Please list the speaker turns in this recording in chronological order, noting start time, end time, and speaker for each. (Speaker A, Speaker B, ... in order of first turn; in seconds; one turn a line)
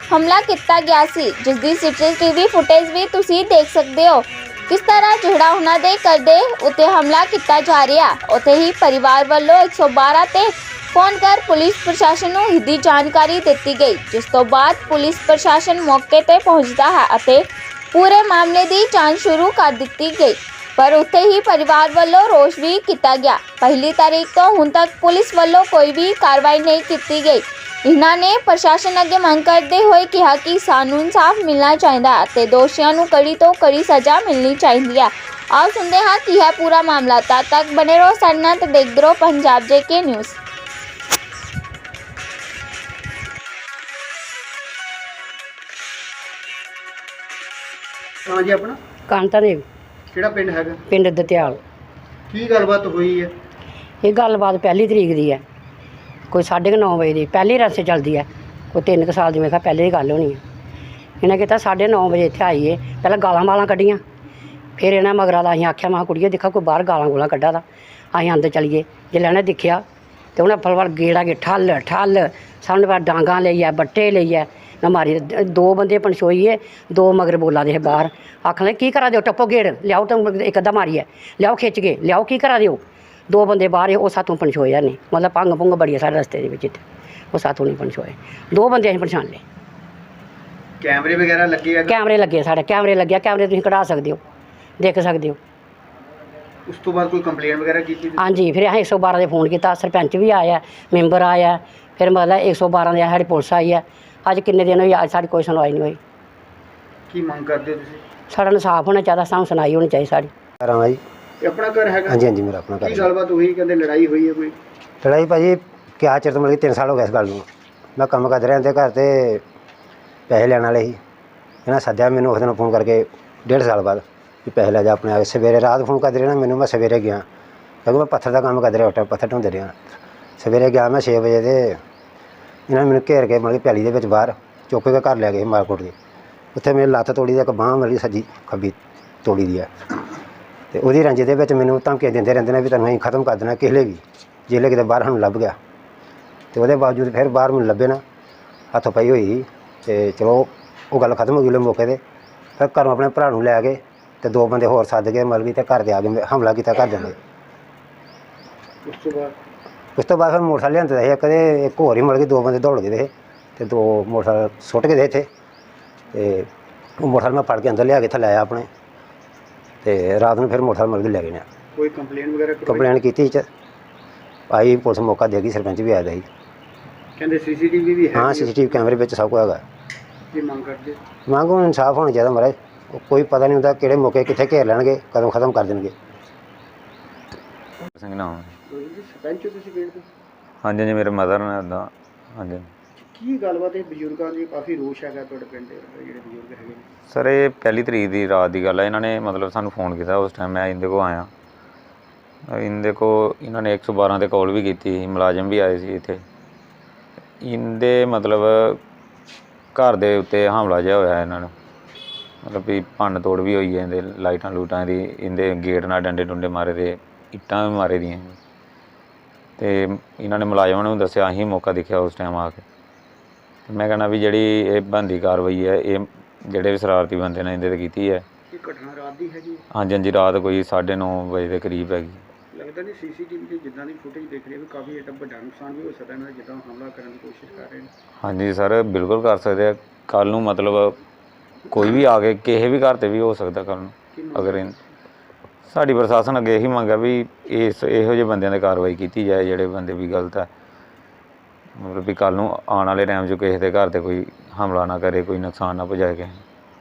Speaker A: 0.2-40.4
Speaker B: 48.3-48.8
Speaker C: 49.1-49.6
Speaker B: 50.1-50.8
Speaker C: 50.9-51.6
Speaker B: 52.3-53.3
Speaker C: 54.0-55.4
Speaker C: 56.3-60.4
Speaker C: 61.2-64.0
Speaker C: 64.8-67.6
Speaker C: 68.1-69.8
Speaker C: 70.4-86.8
Speaker C: 87.3-89.4
Speaker B: 90.8-92.0
Speaker C: 91.9-94.2
Speaker C: 94.8-95.4
Speaker B: 96.7-98.3
Speaker C: 98.2-106.0
Speaker B: 107.1-108.0
Speaker C: 108.3-110.3
Speaker D: 110.6-111.0
Speaker B: 111.4-112.2
Speaker D: 112.1-113.1
Speaker B: 112.8-114.6
Speaker D: 115.0-117.5
Speaker D: 118.0-119.4
Speaker D: 120.3-121.0
Speaker D: 121.7-127.2
Speaker D: 127.8-131.8
Speaker D: 132.7-135.9
Speaker D: 136.6-139.7
Speaker D: 140.7-145.6
Speaker D: 146.5-148.0
Speaker D: 148.7-152.0
Speaker D: 152.6-157.2
Speaker B: 158.8-159.3
Speaker D: 160.0-165.3
Speaker D: 166.1-166.5
Speaker D: 167.0-168.7
Speaker D: 169.8-171.4
Speaker B: 171.8-172.9
Speaker D: 172.7-173.5
Speaker D: 174.5-176.3
Speaker B: 177.2-178.8
Speaker D: 178.2-179.6
Speaker B: 180.3-181.0
Speaker D: 181.3-185.9
Speaker E: 187.9-188.6
Speaker B: 188.7-190.1
Speaker E: 190.6-192.7
Speaker B: 193.0-196.9
Speaker E: 197.1-201.3
Speaker E: 202.5-206.2
Speaker E: 207.4-208.8
Speaker E: 209.8-211.5
Speaker E: 212.4-218.4
Speaker E: 219.6-222.7
Speaker E: 223.7-228.2
Speaker B: 228.5-229.6
Speaker E: 229.7-232.2
Speaker B: 232.5-237.9
Speaker E: 238.2-241.0
Speaker E: 241.7-244.7
Speaker B: 244.1-244.8
Speaker E: 245.7-250.5
Speaker E: 251.8-256.4